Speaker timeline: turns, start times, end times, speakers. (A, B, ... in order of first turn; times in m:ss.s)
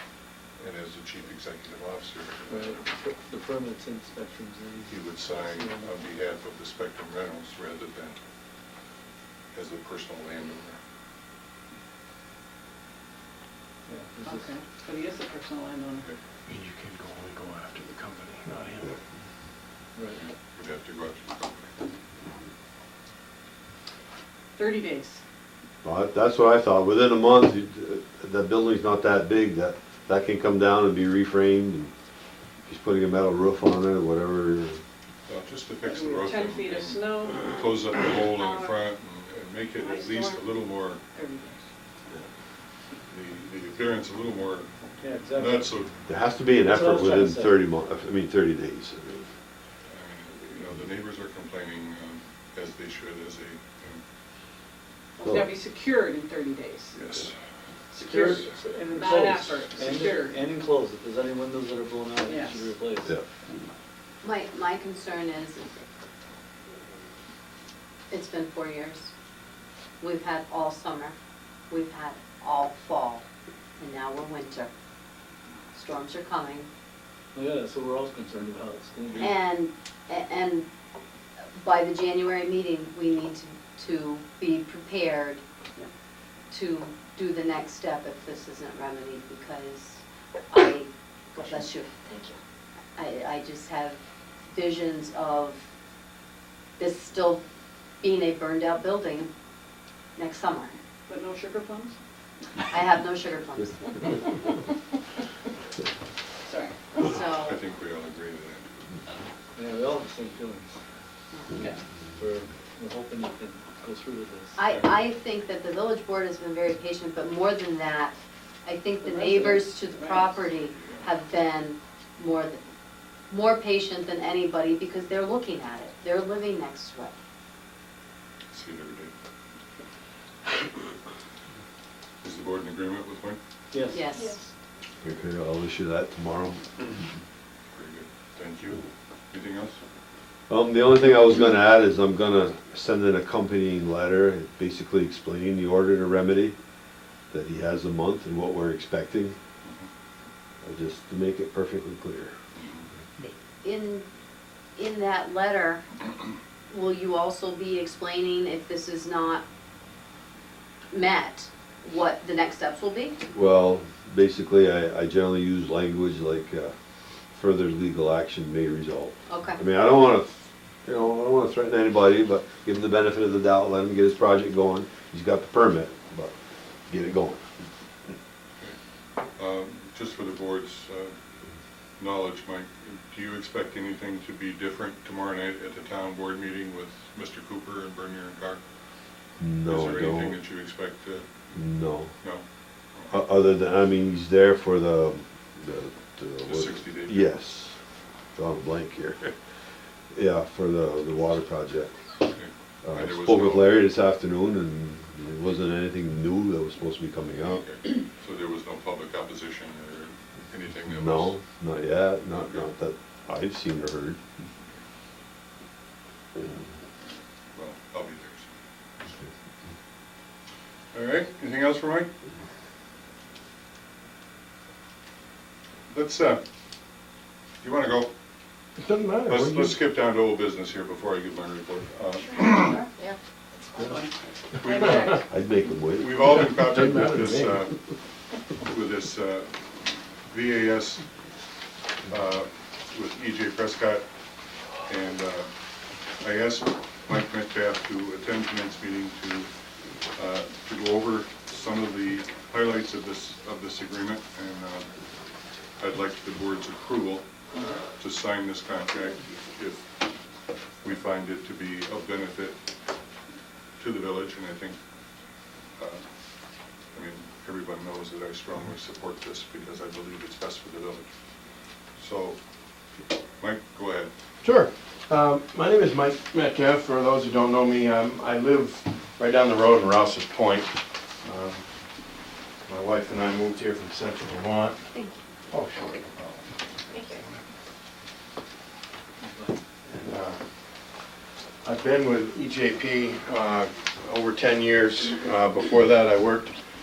0:00.6-0:02.8 A
0:02.5-0:05.9 B
0:04.9-0:08.2 A
0:09.5-0:10.8 A
0:13.9-0:14.5 B
0:14.2-0:16.1 C
0:16.5-0:19.0 D
0:20.2-0:21.7 A
0:24.6-0:25.2 C
0:25.8-0:31.9 E
0:32.7-0:34.8 E
0:35.3-0:41.0 A
0:35.8-0:37.6 C
0:38.3-0:38.9 C
0:39.8-0:40.5 C
0:41.1-0:41.6 C
0:43.1-0:44.7 A
0:45.0-0:45.7 B
0:45.3-0:45.9 A
0:46.1-0:49.3 E
0:46.7-0:47.6 B
0:49.9-0:54.0 A
0:55.2-0:57.0 C
0:55.2-0:55.5 E
0:56.9-0:57.3 A
0:57.9-1:00.4 C
0:58.0-1:03.2 B
1:02.2-1:02.7 C
1:04.2-1:05.6 F
1:08.1-1:09.1 F
1:10.0-1:11.2 F
1:11.7-1:13.2 F
1:13.8-1:14.7 F
1:15.7-1:16.7 F
1:17.3-1:19.4 B
1:19.2-1:20.7 F
1:21.6-1:25.4 F
1:26.5-1:32.0 F
1:32.1-1:32.4 C
1:33.0-1:34.0 F
1:34.5-1:35.6 F
1:36.8-1:37.4 F
1:38.0-1:39.3 F
1:40.2-1:40.7 F
1:41.1-1:42.0 C
1:42.7-1:44.4 F
1:46.4-1:47.0 C
1:47.0-1:47.6 F
1:47.3-1:48.7 A
1:49.6-1:50.8 B
1:52.2-1:54.6 B
1:54.6-2:02.6 F
1:59.0-2:00.5 C
2:00.8-2:01.0 A
2:03.3-2:07.1 F
2:08.5-2:09.1 A
2:12.2-2:13.4 A
2:13.7-2:14.0 B
2:13.9-2:14.4 F
2:14.1-2:14.4 C
2:15.0-2:16.6 E
2:17.7-2:19.8 A
2:20.5-2:26.6 E
2:27.3-2:29.4 E
2:30.6-2:32.3 E
2:32.6-2:32.9 A
2:33.2-2:34.1 F
2:34.8-2:35.8 F
2:36.7-2:39.4 F
2:40.9-2:43.2 F
2:43.3-2:46.7 E
2:47.3-2:50.3 E
2:49.3-2:49.6 F
2:50.8-2:56.3 E
2:56.9-2:57.4 E
2:59.4-3:01.1 A
3:02.0-3:08.6 A
3:09.4-3:10.4 E
3:09.7-3:11.6 A
3:11.5-3:12.1 E
3:12.2-3:13.2 A
3:13.1-3:17.8 E
3:16.4-3:17.3 A
3:18.4-3:19.3 E
3:20.1-3:22.0 E
3:22.3-3:23.9 A
3:22.8-3:27.6 E
3:27.5-3:31.4 A
3:30.9-3:34.2 E
3:32.3-3:32.7 A
3:37.5-3:38.5 A
3:40.9-3:42.1 A
3:45.9-3:46.4 A
3:47.6-3:48.1 A
3:48.8-3:49.8 D
3:49.3-3:52.8 A
3:53.7-3:55.2 C
3:54.6-3:55.2 A
3:55.3-3:56.4 E
3:56.0-3:57.8 A
3:56.6-3:57.7 D
3:58.6-4:01.0 A
4:02.1-4:04.0 A
4:04.9-4:05.5 A
4:06.2-4:09.5 A
4:10.2-4:14.9 A
4:15.8-4:17.3 A
4:18.0-4:19.8 A
4:20.8-4:22.6 A
4:23.8-4:24.8 A
4:25.8-4:26.0 A
4:26.9-4:31.1 A
4:32.0-4:32.4 A
4:33.4-4:34.1 A
4:34.4-4:41.6 D
4:42.7-4:44.8 D
4:44.9-4:45.2 F
4:45.5-4:46.5 D
4:49.2-4:49.6 B
4:49.9-4:50.4 D
4:51.6-4:56.5 D